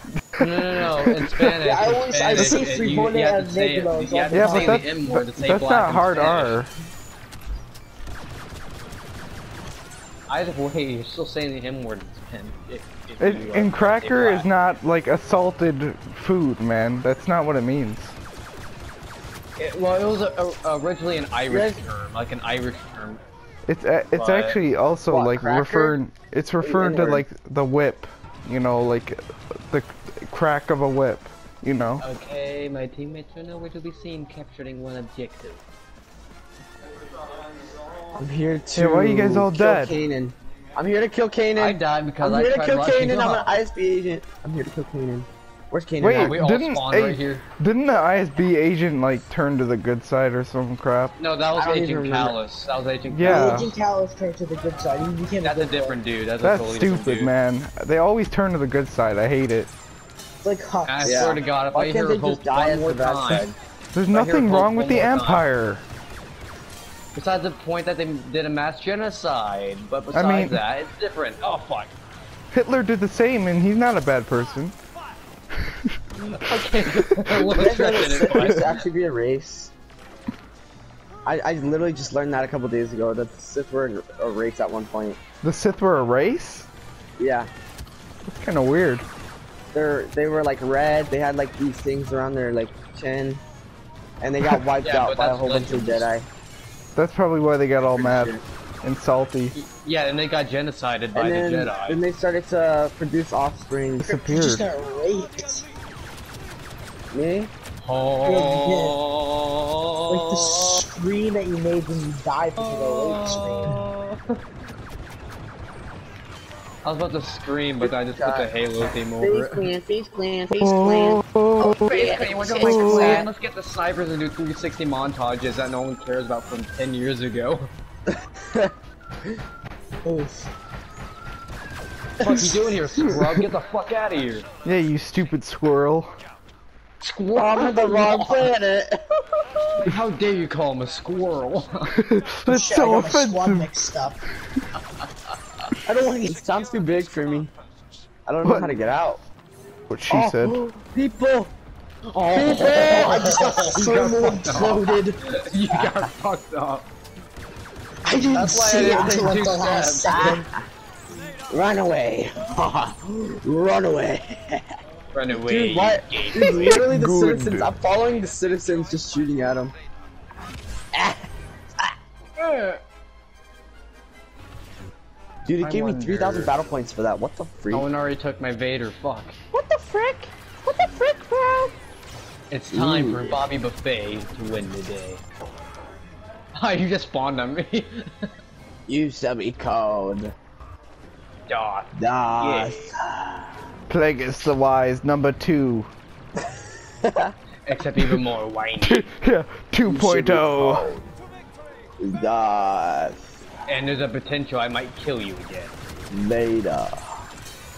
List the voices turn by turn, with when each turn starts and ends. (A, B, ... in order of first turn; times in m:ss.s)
0:00.3-0:01.5 A
0:00.4-0:06.6 B
0:01.5-0:04.8 C
0:02.3-0:02.7 A
0:04.3-0:06.7 A
0:10.3-0:14.5 B
0:13.2-0:18.2 A
0:19.6-0:23.2 B
0:21.5-0:21.8 D
0:23.6-0:29.2 A
0:24.1-0:24.6 B
0:25.1-0:26.0 D
0:26.6-0:27.2 D
0:29.7-0:32.0 A
0:32.0-0:35.6 B
0:38.1-0:46.4 D
0:38.8-0:39.9 A
0:41.6-0:43.6 B
0:46.0-0:51.1 A
0:46.1-0:47.4 B
0:51.2-0:53.7 B
0:51.5-0:52.4 D
0:53.1-0:53.7 A
0:53.2-0:56.0 C
0:55.4-0:57.3 B
0:56.4-0:59.7 A
1:00.4-1:01.4 C
1:00.8-1:03.6 B
1:01.0-1:03.5 D
1:03.9-1:05.8 A
1:04.1-1:05.4 B
1:07.1-1:11.9 B
1:10.1-1:10.6 A
1:12.5-1:14.8 A
1:15.6-1:16.0 A
1:16.2-1:18.8 B
1:17.3-1:19.7 D
1:21.2-1:25.2 D
1:25.4-1:26.7 A
1:27.2-1:27.5 D
1:28.2-1:29.0 A
1:29.7-1:33.4 D
1:34.2-1:36.3 D
1:34.8-1:36.1 B
1:37.0-1:39.5 A
1:38.0-1:38.4 D
1:39.5-1:42.0 B
1:41.1-1:44.1 D
1:44.0-1:44.6 A
1:44.1-1:45.6 C
1:47.1-1:47.5 D
1:47.8-1:50.8 B
1:48.2-1:49.0 C
1:50.1-1:53.8 C
1:52.6-1:54.4 B
1:56.8-1:59.7 B
1:57.8-1:58.5 D
1:59.2-2:03.3 D
2:00.6-2:02.1 A
2:01.8-2:07.7 B
2:02.6-2:03.2 A
2:08.1-2:08.7 D
2:10.0-2:10.5 C
2:12.2-2:13.2 C
2:12.2-2:14.5 B
2:14.6-2:16.1 A
2:17.0-2:18.5 B
2:17.3-2:19.6 D
2:19.8-2:22.0 B
2:21.9-2:23.7 A
2:22.5-2:24.2 C
2:25.8-2:27.5 D
2:28.3-2:29.2 D
2:28.4-2:28.8 A
2:29.9-2:30.6 A
2:30.1-2:31.5 D
2:32.1-2:35.0 D
2:32.3-2:36.9 B
2:32.5-2:35.2 C
2:38.0-2:40.4 C
2:38.1-2:40.4 B
2:38.8-2:39.2 D
2:40.1-2:40.6 D
2:41.5-2:44.8 D
2:45.1-2:46.8 B
2:45.3-2:49.7 D
2:46.5-2:47.7 A
2:50.9-2:51.2 D
2:52.4-2:52.8 B
2:55.4-2:57.9 D
2:55.6-2:56.5 B
2:57.7-2:59.4 B
2:59.5-3:01.7 D
3:02.5-3:05.2 B
3:02.7-3:03.4 D
3:06.6-3:08.3 B
3:08.9-3:10.3 D
3:11.5-3:12.9 B
3:11.9-3:13.5 D
3:13.9-3:15.9 A
3:17.0-3:17.3 D
3:17.6-3:19.1 B
3:18.8-3:20.9 A
3:19.8-3:21.1 D
3:22.0-3:23.2 D
3:23.7-3:25.7 B
3:26.1-3:27.2 D